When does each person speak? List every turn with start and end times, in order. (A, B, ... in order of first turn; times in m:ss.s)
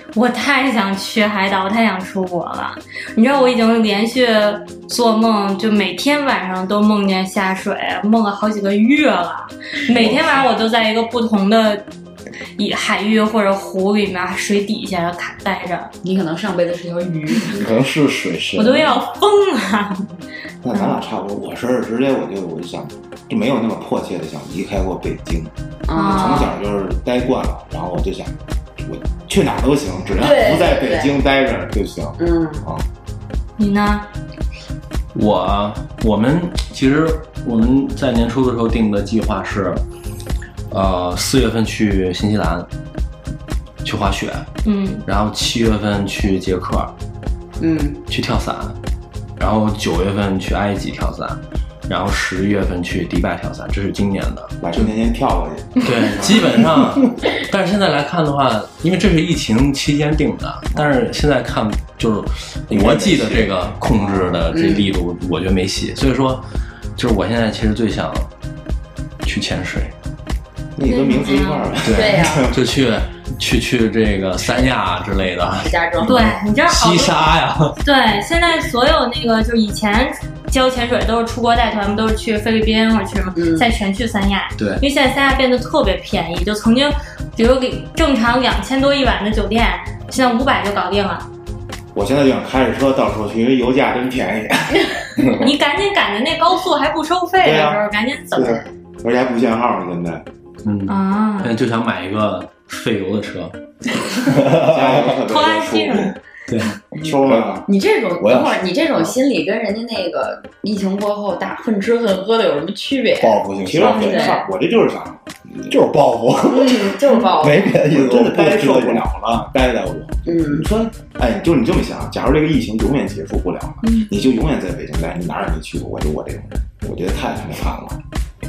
0:00.2-0:11.8 A
0:09.9-0:10.3 B
0:12.6-0:15.9 A
0:16.0-0:17.6 C
0:17.5-0:19.0 B
0:18.6-0:20.1 A
0:20.6-0:25.5 D
0:20.7-0:21.0 A
0:25.9-0:26.6 C
0:26.0-0:26.5 A
0:26.1-0:32.8 D
0:30.2-0:31.2 C
0:32.2-0:32.6 C
0:33.6-0:34.1 A
0:35.1-0:39.8 E
0:40.7-0:42.7 E
0:43.8-0:44.5 E
0:44.6-0:45.0 A
0:45.0-0:46.9 E
0:47.6-0:48.0 C
0:48.1-0:48.8 E
0:49.4-0:54.5 E
0:54.6-0:56.5 D
0:55.8-1:06.4 E
1:02.7-1:03.4 B
1:04.5-1:04.9 C
1:07.0-1:08.3 E
1:09.2-1:09.9 E
1:10.8-1:12.6 D
1:10.8-1:11.8 A
1:11.8-1:17.8 E
1:11.9-1:12.5 C
1:15.6-1:16.3 C
1:16.0-1:17.2 A
1:17.8-1:31.3 A
1:23.4-1:23.7 C
1:32.0-1:35.3 D
1:35.3-1:38.6 A
1:37.4-1:37.8 D
1:38.3-1:40.2 D
1:40.6-1:43.6 E
1:40.9-1:41.6 A
1:44.3-1:45.2 B
1:44.5-1:46.1 D
1:45.2-1:46.2 A
1:46.5-1:46.8 E
1:47.0-1:47.7 D
1:47.2-1:47.6 B
1:47.7-1:54.5 C
1:48.2-1:48.6 B
1:53.2-1:54.3 B
1:53.6-1:55.8 D
1:55.7-1:59.0 B
1:56.5-1:57.8 C
1:57.9-2:08.0 D
2:00.3-2:00.7 C